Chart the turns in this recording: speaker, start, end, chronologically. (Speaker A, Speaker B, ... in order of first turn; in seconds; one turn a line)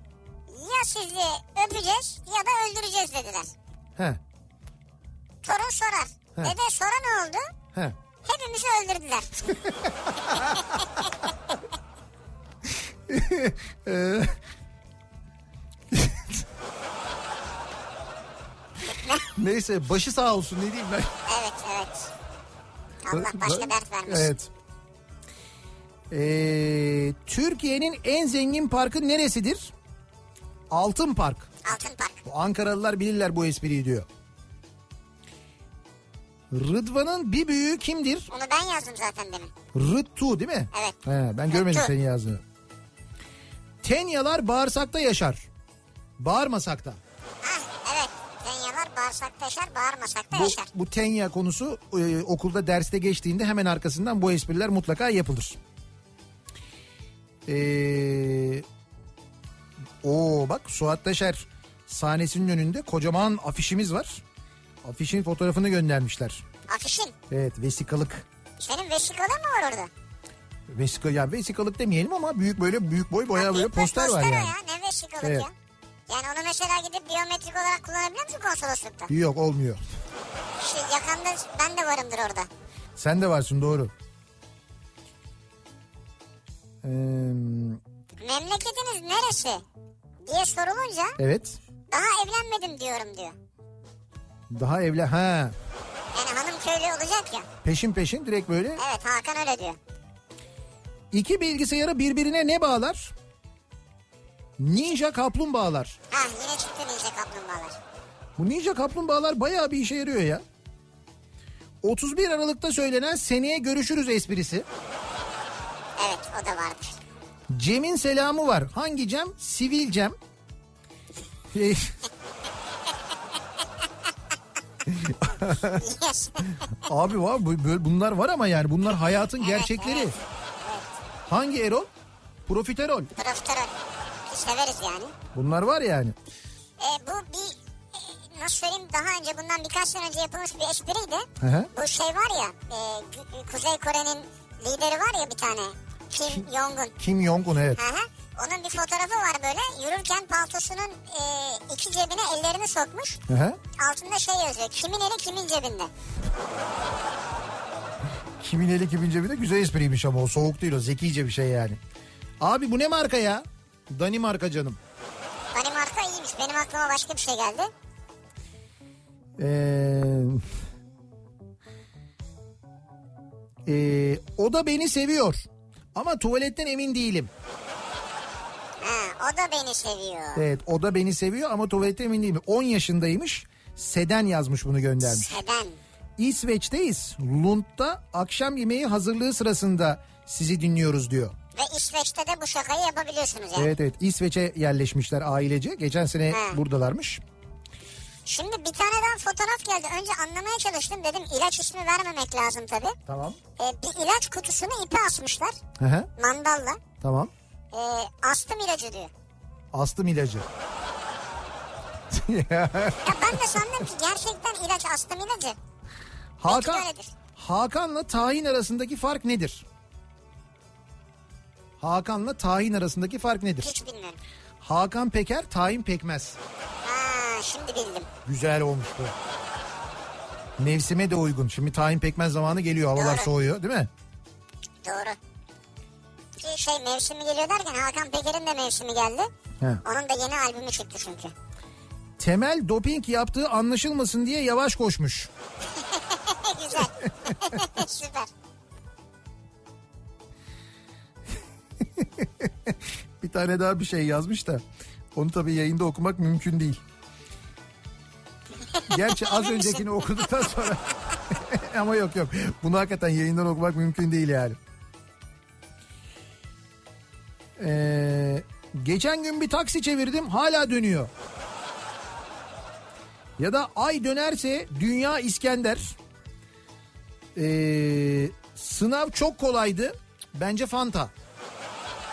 Speaker A: 0.5-3.5
Speaker A: 5.4-7.5
Speaker A: 8.2-9.5
Speaker B: 10.1-10.6
Speaker A: 10.3-11.1
Speaker B: 13.1-14.4
Speaker B: 15.9-16.4
Speaker A: 18.8-19.3
Speaker B: 19.4-21.1
Speaker A: 21.3-22.1
Speaker A: 23.0-24.3
Speaker B: 23.1-24.5
Speaker B: 26.1-29.7
Speaker B: 30.7-31.5
Speaker A: 31.6-32.2
Speaker B: 32.2-34.1
Speaker B: 36.5-38.3
Speaker A: 38.3-39.5
Speaker B: 39.7-42.4
Speaker A: 41.5-41.9
Speaker B: 43.8-45.5
Speaker B: 46.2-47.0
Speaker A: 47.4-50.7
Speaker B: 50.3-55.6
Speaker B: 57.5-58.6
Speaker B: 60.0-64.2
Speaker B: 64.8-66.4
Speaker A: 66.7-67.2
Speaker B: 67.3-68.3
Speaker A: 68.6-69.9
Speaker B: 70.7-74.5
Speaker A: 73.3-75.5
Speaker B: 75.2-75.5
Speaker A: 76.1-79.1
Speaker B: 79.1-79.8
Speaker A: 80.6-82.5
Speaker B: 83.0-83.9
Speaker B: 86.8-87.8
Speaker A: 88.2-89.6
Speaker A: 90.2-91.2
Speaker B: 91.2-91.6
Speaker A: 91.9-93.3
Speaker B: 94.5-95.5
Speaker A: 96.1-97.5
Speaker B: 97.6-98.8
Speaker A: 98.8-99.8
Speaker B: 101.1-103.1
Speaker B: 104.6-106.0
Speaker A: 106.1-107.8
Speaker B: 108.4-110.4
Speaker B: 111.8-114.7
Speaker A: 116.0-117.0
Speaker B: 117.5-120.2
Speaker B: 121.5-122.0
Speaker B: 124.9-125.8
Speaker A: 125.7-126.7
Speaker B: 126.8-130.2
Speaker A: 129.4-130.9
Speaker B: 131.3-131.9
Speaker B: 132.5-133.1
Speaker A: 133.2-133.7
Speaker A: 134.3-135.2
Speaker B: 135.3-136.2
Speaker A: 136.8-147.0
Speaker B: 141.4-141.7
Speaker B: 147.0-147.8
Speaker A: 147.8-153.2
Speaker B: 153.3-153.6
Speaker A: 153.8-155.9
Speaker B: 158.4-161.8
Speaker B: 162.4-164.8
Speaker A: 165.5-167.7
Speaker B: 169.4-170.4
Speaker B: 173.7-177.3
Speaker A: 178.8-180.4
Speaker B: 180.3-185.3
Speaker A: 185.0-185.8
Speaker B: 186.2-191.3
Speaker A: 191.5-193.7
Speaker B: 193.6-197.2
Speaker A: 196.3-196.6
Speaker A: 198.3-203.0
Speaker B: 203.1-203.4
Speaker A: 203.6-205.6
Speaker B: 205.8-206.1
Speaker A: 206.2-206.8
Speaker B: 207.0-207.3
Speaker A: 207.7-209.1
Speaker B: 209.7-210.4
Speaker B: 212.1-213.5
Speaker A: 213.0-215.6
Speaker B: 216.4-219.7
Speaker A: 216.4-217.2
Speaker B: 221.8-223.8
Speaker A: 223.6-224.2
Speaker B: 224.6-226.4
Speaker A: 226.8-228.1
Speaker B: 228.3-229.2
Speaker B: 230.6-233.9
Speaker A: 232.9-233.3
Speaker A: 234.8-235.2
Speaker A: 236.4-239.3
Speaker A: 239.8-241.3
Speaker B: 242.2-245.3
Speaker A: 245.7-248.3
Speaker B: 252.0-254.6
Speaker B: 255.2-256.8
Speaker A: 258.7-260.3
Speaker B: 258.9-264.6
Speaker B: 267.6-271.1
Speaker B: 273.4-276.0
Speaker B: 277.4-281.1